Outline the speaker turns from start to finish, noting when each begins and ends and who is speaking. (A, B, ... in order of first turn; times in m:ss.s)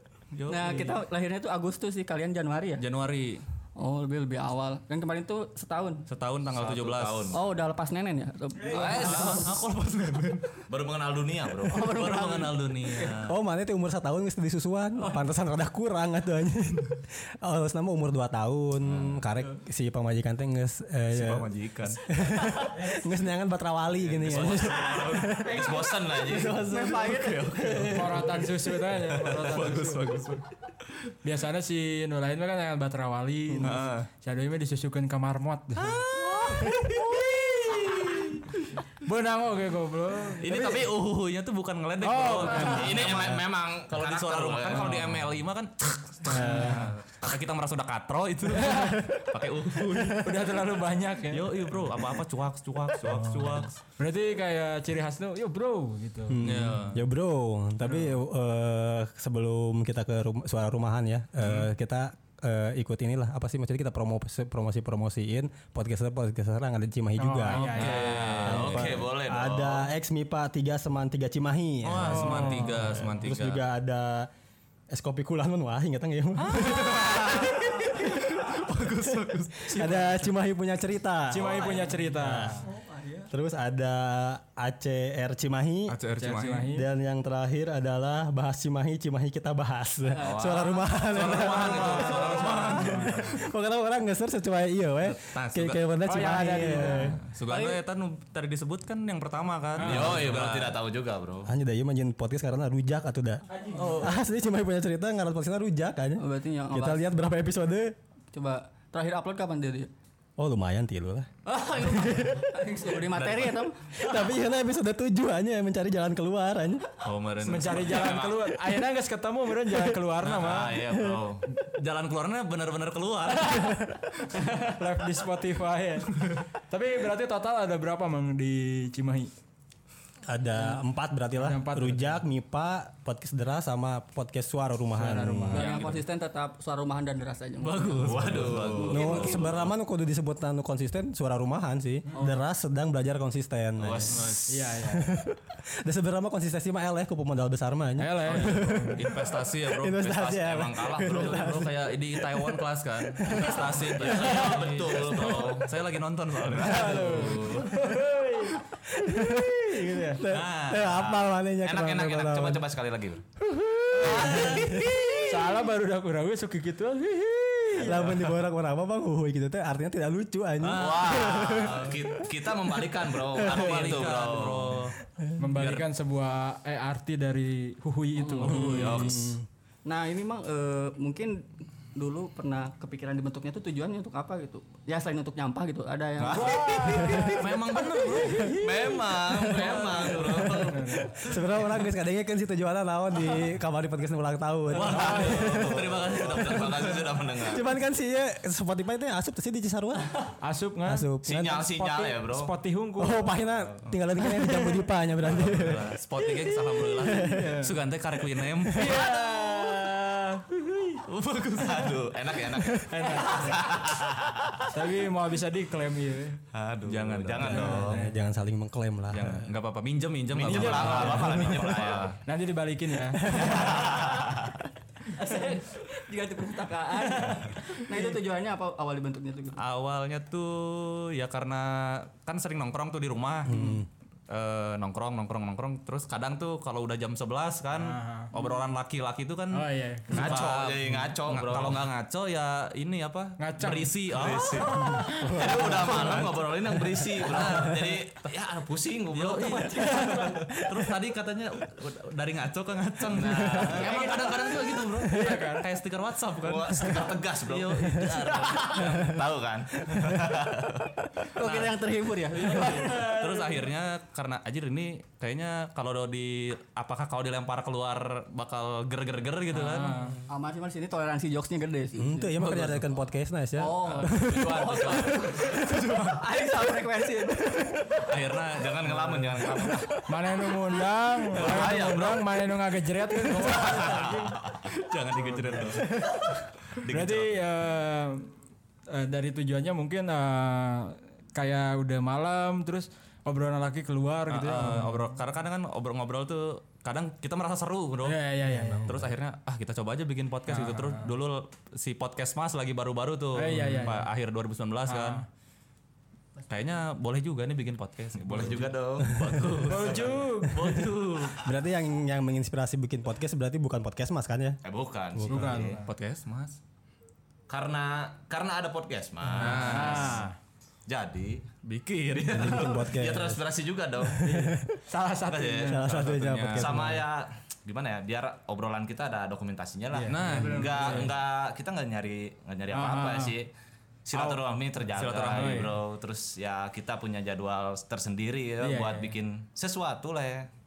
0:00.3-0:01.0 A
0:00.5-0:02.8 B
0:02.8-0:03.4 A
0:03.8-0:06.0 B
0:06.1-0:07.3 A
0:06.5-0:07.4 C
0:07.3-0:09.5 B
0:08.6-0:09.6 C
0:08.7-0:10.6 A
0:10.7-0:12.2 C
0:11.6-0:12.7 B
0:11.7-0:13.4 A
0:13.2-0:28.4 D
0:18.9-0:19.2 C
0:21.1-0:22.0 A
0:24.0-0:25.4 A
0:24.2-0:26.6 C
0:25.6-0:25.8 B
0:26.3-0:27.7 B
0:27.2-0:28.4 A
0:27.8-0:30.1 E
0:29.3-0:30.4 A
0:31.2-0:36.0 E
0:33.5-0:33.7 D
0:33.6-0:34.1 A
0:35.8-0:38.4 A
0:36.6-0:38.0 E
0:38.9-0:40.8 E
0:40.3-0:50.3 A
0:42.0-0:43.1 E
0:42.6-0:45.2 C
0:44.7-0:45.1 E
0:46.2-0:47.0 E
0:48.5-0:49.0 E
0:49.9-0:50.4 D
0:50.1-0:52.0 E
0:51.3-0:53.7 A
0:53.0-0:56.6 E
0:56.3-1:07.6 D
0:56.4-0:57.0 A
0:57.8-0:58.2 E
1:07.2-1:08.5 E
1:07.5-1:09.0 A
1:07.5-1:09.9 C
1:08.4-1:14.3 D
1:11.8-1:13.6 A
1:12.0-1:12.9 E
1:14.9-1:18.3 D
1:16.4-1:19.8 A
1:19.6-1:20.3 E
1:19.7-1:22.6 D
1:21.3-1:22.6 E
1:21.4-1:21.9 C
1:22.7-1:23.3 B
1:23.3-1:26.0 D
1:25.9-1:26.7 A
1:26.2-1:26.9 E
1:26.7-1:37.2 D
1:30.1-1:30.7 B
1:30.2-1:33.0 C
1:31.1-1:33.2 A
1:32.1-1:33.4 E
1:35.0-1:35.9 A
1:36.0-1:37.2 E
1:36.9-1:40.8 A
1:37.4-1:37.8 B
1:39.8-1:40.3 E
1:39.8-1:41.5 C
1:41.4-1:47.9 D
1:43.5-1:44.1 E
1:43.8-1:44.1 A
1:46.2-1:47.1 B
1:48.3-1:49.9 B
1:50.4-1:51.3 D
1:51.4-1:53.8 B
1:51.8-1:52.4 D
1:53.0-1:53.7 A
1:54.0-1:56.9 D
1:57.0-1:58.1 A
1:57.4-2:00.8 E
1:57.7-1:58.6 C
2:00.2-2:00.7 A
2:00.4-2:01.4 C
2:01.0-2:01.2 D
2:01.7-2:03.8 A
2:03.4-2:09.3 E
2:10.2-2:15.6 D
2:10.6-2:10.8 E
2:11.3-2:12.2 E
2:14.9-2:15.8 E
2:15.5-2:19.5 B
2:15.5-2:16.0 A
2:17.6-2:19.6 A
2:18.0-2:19.7 C
2:18.9-2:32.6 D
2:23.8-2:24.3 C
2:24.1-2:24.6 A
2:24.5-2:25.2 E
2:28.0-2:28.9 E
2:28.2-2:30.3 A
2:30.0-2:31.5 C
2:30.9-2:37.5 A
2:33.2-2:33.8 D
2:33.7-2:35.7 C
2:36.5-2:37.8 C
2:36.6-2:38.6 E
2:38.9-2:42.6 D
2:39.2-2:40.0 E
2:40.2-2:41.0 A
2:40.9-2:43.2 C
2:43.4-2:45.2 D
2:44.0-2:45.0 C
2:44.1-2:45.2 A
2:44.1-2:44.4 E
2:45.2-2:48.3 E
2:47.7-2:53.9 D
2:50.6-2:51.9 A
2:50.6-2:54.9 C
2:53.4-2:55.0 A
2:55.4-2:59.1 E
2:55.5-2:55.8 A
2:58.1-2:58.6 B
2:58.4-2:59.4 C
2:58.5-2:59.4 D
2:58.5-2:59.2 A
2:59.8-3:07.4 B
3:06.2-3:07.0 C
3:06.3-3:08.8 E
3:06.9-3:07.4 D
3:07.0-3:08.6 A
3:08.5-3:11.4 C
3:09.1-3:20.1 D
3:10.4-3:11.1 E
3:14.7-3:17.1 A
3:14.7-3:15.4 E
3:14.8-3:17.7 C
3:20.2-3:21.1 E
3:20.8-3:22.2 D
3:21.2-3:22.5 C
3:22.2-3:23.3 E
3:23.0-3:25.9 D
3:24.3-3:24.8 E
3:25.2-3:29.0 A
3:27.0-3:27.5 D
3:27.2-3:27.7 E
3:28.7-3:31.0 E
3:31.0-3:32.1 A
3:31.6-3:34.7 C
3:32.9-3:33.6 E
3:34.7-3:36.4 E
3:36.5-3:38.0 C
3:36.8-3:37.9 A
3:37.4-3:38.2 E
3:37.9-3:39.5 D
3:39.1-3:42.0 A
3:40.3-3:42.2 C
3:40.3-3:41.4 E
3:41.3-3:42.0 D
3:42.2-3:43.7 E
3:43.2-3:44.0 D
3:43.4-3:44.6 C
3:45.1-3:49.6 B
3:47.0-3:48.2 E
3:49.6-4:05.0 A
3:53.4-3:53.8 D
3:57.7-3:58.3 E
3:59.5-4:00.4 E
4:00.1-4:01.8 C
4:03.4-4:05.4 E
4:04.1-4:10.4 C
4:04.7-4:06.3 D
4:05.7-4:06.4 A
4:07.2-4:08.2 A
4:09.1-4:19.2 A
4:09.7-4:10.4 E
4:13.1-4:14.3 C
4:13.3-4:13.8 D
4:13.7-4:15.7 E
4:16.4-4:21.6 C
4:19.9-4:20.3 D
4:21.3-4:23.1 B
4:21.4-4:21.7 A
4:22.3-4:30.0 A
4:22.5-4:23.7 E
4:29.5-4:30.2 E
4:30.3-4:32.3 B
4:32.0-4:34.6 D
4:32.4-4:32.9 A
4:33.6-4:37.8 B
4:33.8-4:36.2 A
4:34.2-4:35.4 C
4:38.1-4:39.7 A
4:38.5-4:40.0 C
4:40.1-4:44.3 E
4:41.3-4:42.3 C
4:43.4-4:44.6 C
4:44.7-4:45.9 A
4:45.2-4:45.9 E
4:46.8-4:47.4 C
4:46.9-4:48.3 E
4:48.9-4:55.0 E
4:54.3-4:58.2 A
4:58.0-4:59.0 E
4:58.5-4:58.9 D
4:58.8-5:05.2 A
5:00.5-5:01.1 E
5:03.3-5:04.1 E
5:04.9-5:05.2 E
5:06.5-5:11.4 A
5:08.2-5:11.4 C
5:09.0-5:09.6 D
5:09.7-5:10.7 E
5:10.5-5:10.8 D
5:11.4-5:14.6 D
5:14.6-5:15.8 C
5:15.1-5:15.7 D
5:15.2-5:15.9 E
5:15.8-5:16.6 A
5:17.5-5:20.2 C
5:19.3-5:20.2 A
5:19.4-5:20.4 E
5:20.9-5:21.5 C
5:21.6-5:22.8 A
5:22.1-5:24.4 C
5:22.3-5:23.4 D
5:24.0-5:24.7 D
5:24.2-5:25.9 E
5:25.3-5:33.5 C
5:25.7-5:27.0 D
5:25.9-5:26.9 A
5:29.9-5:31.1 E
5:30.0-5:31.1 A
5:32.7-5:33.3 E
5:34.0-5:40.5 C
5:34.1-5:34.4 E
5:34.9-5:35.8 A
5:35.3-5:35.8 E
5:38.6-5:39.1 E